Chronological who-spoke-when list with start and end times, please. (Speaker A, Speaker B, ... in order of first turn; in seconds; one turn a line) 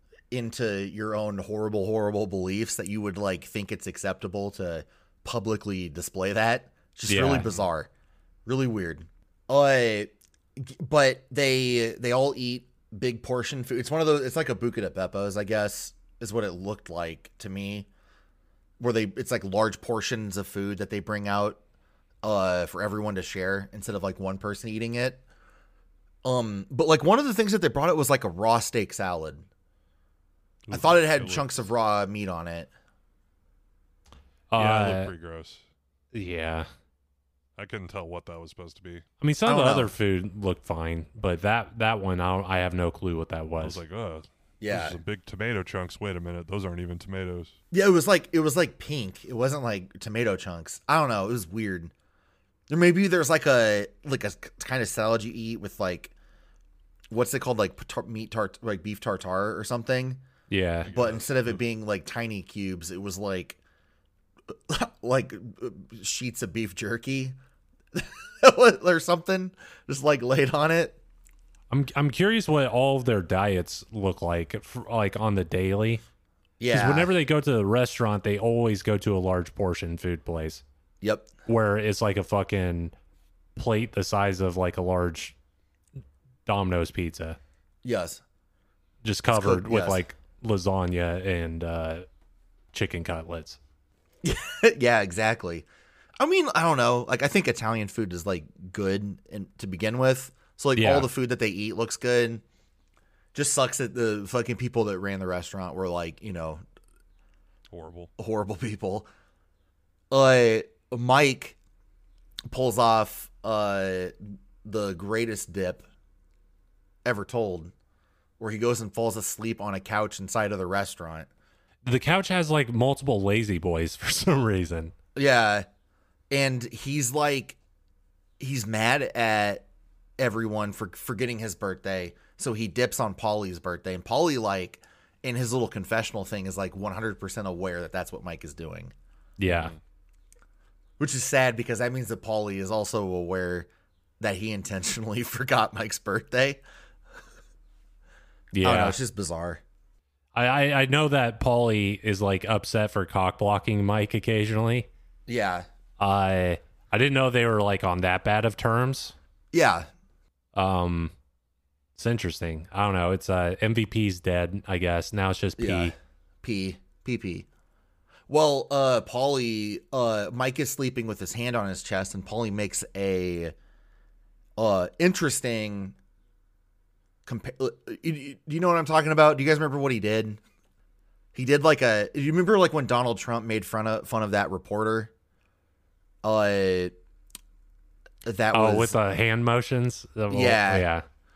Speaker A: 0.3-7.9
Speaker B: 7.1-7.5
Speaker A: 8.4-17.9
Speaker A: 18.8-21.6
Speaker A: 22.2-25.2
Speaker A: 26.2-29.4
Speaker C: 30.7-31.6
Speaker A: 30.7-32.7
Speaker B: 34.5-35.1
Speaker C: 34.5-35.6
Speaker B: 36.1-36.7
Speaker C: 37.6-39.0
Speaker B: 39.2-43.8
Speaker A: 39.5-39.9
Speaker C: 43.6-47.5
Speaker A: 44.6-45.0
Speaker A: 47.7-51.9
Speaker A: 52.7-56.1
Speaker A: 57.1-60.2
Speaker B: 60.5-60.9
Speaker C: 60.8-61.6
Speaker A: 60.9-63.6
Speaker A: 64.7-67.4
Speaker A: 67.9-71.0
Speaker B: 71.7-76.0
Speaker A: 76.6-77.1
Speaker B: 76.7-80.6
Speaker A: 81.0-81.3
Speaker B: 81.5-82.9
Speaker B: 83.5-85.3
Speaker B: 86.5-87.4
Speaker A: 87.8-88.2
Speaker B: 89.0-92.0
Speaker A: 89.3-90.0
Speaker B: 92.7-93.6
Speaker A: 94.2-95.7
Speaker A: 96.2-102.4
Speaker B: 100.8-101.1
Speaker A: 103.3-106.6
Speaker C: 107.7-108.1
Speaker A: 108.2-109.1
Speaker A: 110.1-111.6
Speaker A: 112.5-115.9
Speaker A: 117.0-117.7
Speaker A: 118.4-121.3
Speaker B: 121.8-124.9
Speaker A: 125.1-125.7
Speaker A: 126.3-127.6
Speaker A: 128.4-129.6
Speaker A: 130.2-138.9
Speaker B: 139.4-139.7
Speaker C: 139.5-139.8
Speaker A: 141.0-143.7
Speaker A: 144.2-146.6
Speaker B: 148.5-149.0
Speaker A: 148.6-149.6
Speaker B: 150.3-154.9
Speaker A: 155.3-155.7
Speaker B: 156.0-159.1
Speaker A: 159.5-159.9
Speaker B: 160.5-161.1
Speaker B: 161.9-165.9
Speaker A: 165.6-167.5
Speaker A: 168.3-173.5
Speaker A: 174.6-175.9
Speaker A: 177.2-180.4
Speaker A: 181.3-185.1
Speaker A: 186.2-186.9
Speaker A: 188.2-189.0
Speaker B: 188.5-191.0
Speaker A: 190.3-190.9